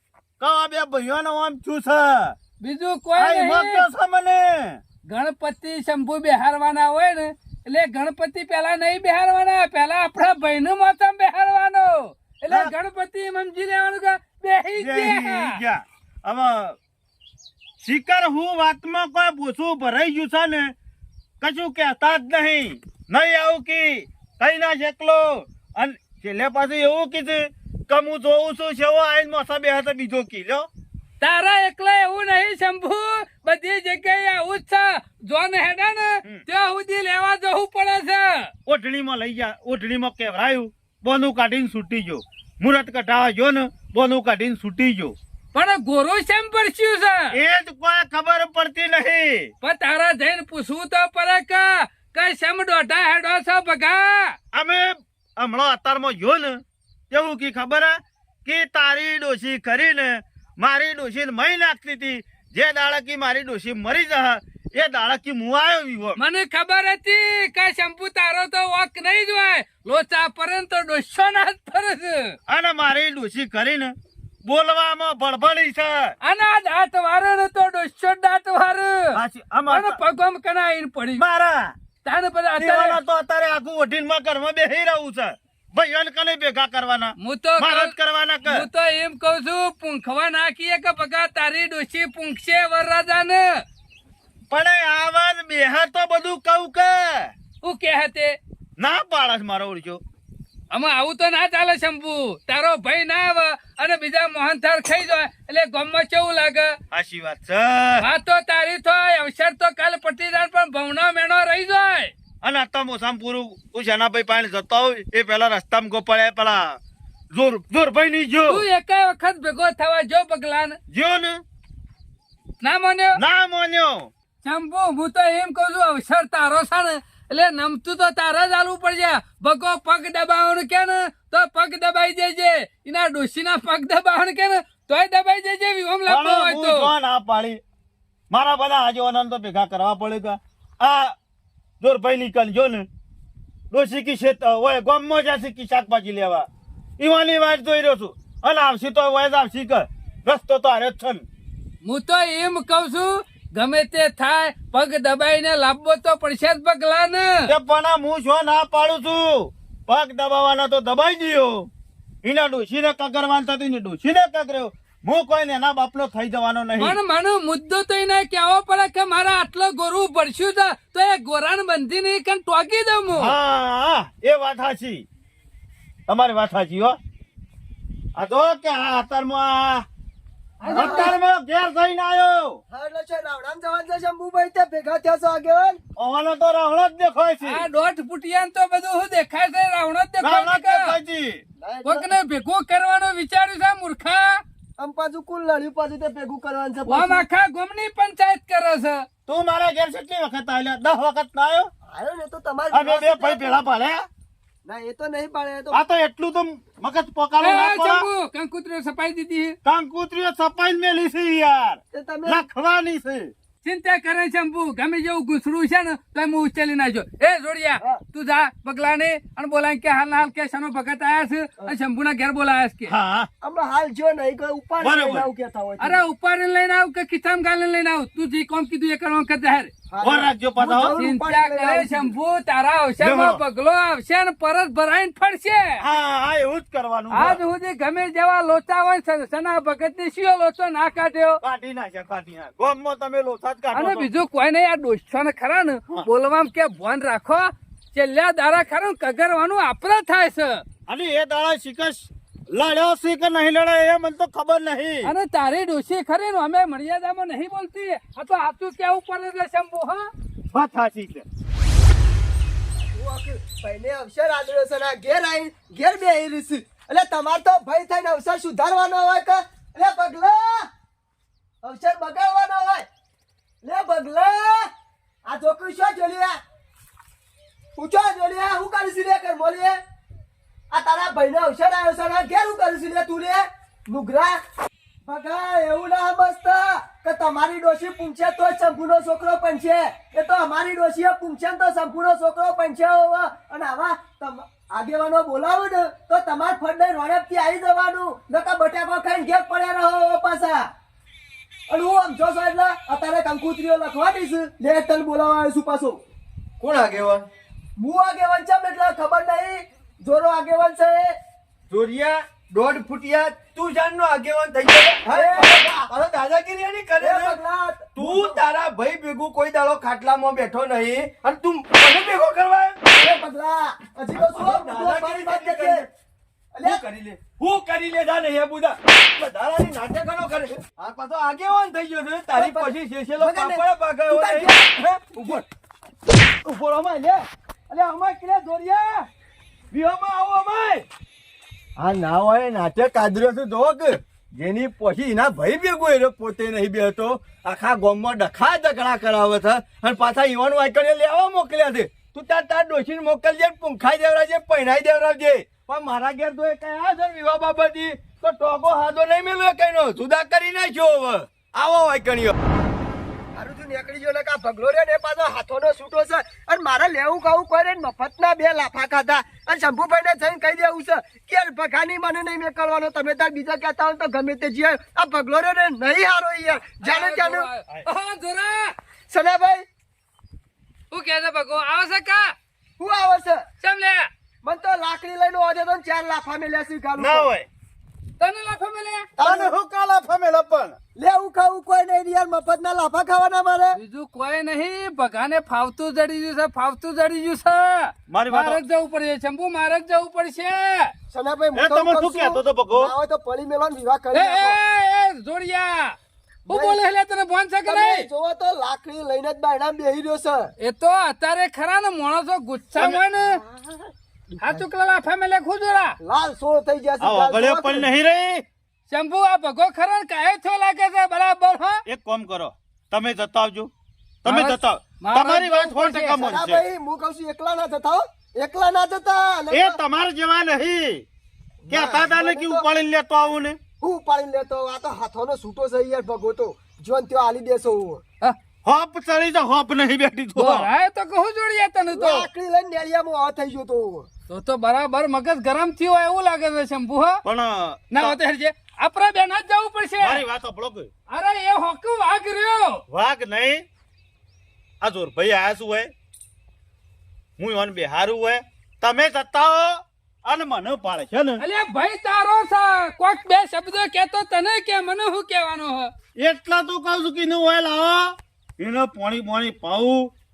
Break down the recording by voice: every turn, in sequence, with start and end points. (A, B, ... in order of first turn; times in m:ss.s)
0:00.4-0:02.4 A
0:02.6-0:03.8 B
0:03.2-0:04.8 A
0:05.0-0:15.6 B
0:14.8-0:16.8 A
0:17.8-0:20.7 A
0:21.4-0:30.7 A
0:31.2-0:38.5 B
0:38.7-0:45.2 A
0:45.5-0:47.3 B
0:47.3-0:49.5 A
0:49.6-0:54.4 B
0:54.5-1:06.2 A
1:06.2-1:12.4 B
1:12.5-1:13.9 A
1:14.4-1:16.2 A
1:16.2-1:19.2 B
1:19.1-1:20.0 A
1:19.7-1:21.2 B
1:21.2-1:21.7 A
1:22.0-1:23.0 B
1:22.6-1:28.7 A
1:27.2-1:33.6 B
1:34.5-1:37.3 A
1:37.6-1:38.4 B
1:38.8-1:40.0 A
1:40.7-1:46.8 B
1:46.9-1:48.1 A
1:48.0-1:52.1 B
1:52.4-1:56.8 A
1:57.3-1:58.6 A
1:58.5-2:00.8 B
2:00.9-2:01.4 A
2:02.6-2:03.2 B
2:03.2-2:04.1 A
2:04.4-2:16.9 B
2:16.1-2:17.6 A
2:18.3-2:21.2 A
2:21.8-2:22.9 A
2:23.7-2:26.5 A
2:27.0-2:31.2 A
2:31.8-2:37.5 B
2:37.5-2:41.7 A
2:42.2-2:47.0 A
2:46.8-2:53.4 B
2:53.2-2:55.0 A
2:56.1-2:57.0 A
2:58.2-2:59.9 A
3:00.6-3:01.2 B
3:00.7-3:01.2 C
3:00.7-3:02.6 A
3:02.7-3:05.8 C
3:06.0-3:07.6 A
3:07.4-3:11.0 B
3:10.2-3:11.4 A
3:11.6-3:12.1 C
3:11.8-3:14.4 B
3:14.8-3:17.2 C
3:16.9-3:19.0 B
3:19.3-3:21.7 A
3:21.9-3:23.6 C
3:22.7-3:24.1 A
3:24.6-3:25.8 C
3:25.7-3:28.1 A
3:27.4-3:29.6 B
3:29.6-3:33.3 A
3:31.9-3:32.4 C
3:33.6-3:42.9 B
3:42.9-3:43.3 A
3:43.4-3:46.0 C
3:44.8-3:45.3 A
3:45.8-3:49.7 B
3:49.9-3:52.2 C
3:50.0-3:51.0 A
3:50.9-3:55.8 B
3:53.0-3:53.4 A
3:55.8-3:57.4 A
3:57.1-4:01.4 B
4:01.4-4:04.1 A
4:03.7-4:10.6 B
4:10.9-4:15.1 A
4:15.0-4:20.1 B
4:20.5-4:21.3 A
4:22.8-4:30.7 C
4:31.6-4:32.9 C
4:33.6-4:34.7 C
4:35.3-4:36.4 C
4:37.8-4:39.8 C
4:40.7-4:44.4 C
4:45.1-5:00.7 C
5:01.7-5:06.0 C
5:06.6-5:07.3 D
5:07.8-5:11.2 C
5:11.7-5:17.4 D
5:15.1-5:15.9 C
5:17.0-5:18.4 C
5:18.0-5:22.8 D
5:23.0-5:25.8 C
5:24.2-5:25.9 D
5:26.5-5:26.8 C
5:26.6-5:35.4 D
5:32.3-5:35.4 C
5:36.4-5:39.1 D
5:39.7-5:40.9 D
5:41.8-6:02.4 D
6:03.3-6:17.5 C
6:16.8-6:18.8 B
6:19.1-6:19.6 C
6:20.9-6:22.4 B
6:22.8-6:23.4 C
6:23.6-6:24.1 B
6:24.4-6:27.3 C
6:27.0-6:27.5 A
6:28.2-6:29.1 B
6:29.2-6:29.5 C
6:29.2-6:30.8 A
6:31.0-6:33.8 C
6:33.8-6:40.9 B
6:38.1-6:38.6 A
6:41.1-6:44.6 C
6:41.6-6:42.9 A
6:44.1-6:46.0 B
6:46.5-6:46.8 C
6:46.5-6:48.1 B
6:47.6-6:50.5 C
6:50.6-6:53.4 B
6:53.2-6:54.6 C
6:54.4-6:56.0 B
6:56.0-6:57.9 C
6:57.0-6:58.4 A
6:58.9-7:01.8 B
7:01.9-7:03.7 A
7:04.2-7:06.6 A
7:04.2-7:06.3 B
7:06.1-7:09.8 C
7:09.5-7:11.0 A
7:11.7-7:12.7 C
7:11.7-7:13.6 A
7:13.8-7:18.0 C
7:18.6-7:20.7 A
7:20.4-7:22.3 B
7:21.9-7:24.1 C
7:24.3-7:27.2 B
7:27.2-7:28.2 A
7:27.9-7:30.2 B
7:30.0-7:30.9 A
7:31.1-7:32.8 B
7:32.9-7:33.6 A
7:34.8-7:35.9 A
7:37.4-7:41.4 A
7:41.4-7:45.9 B
7:46.2-7:50.1 A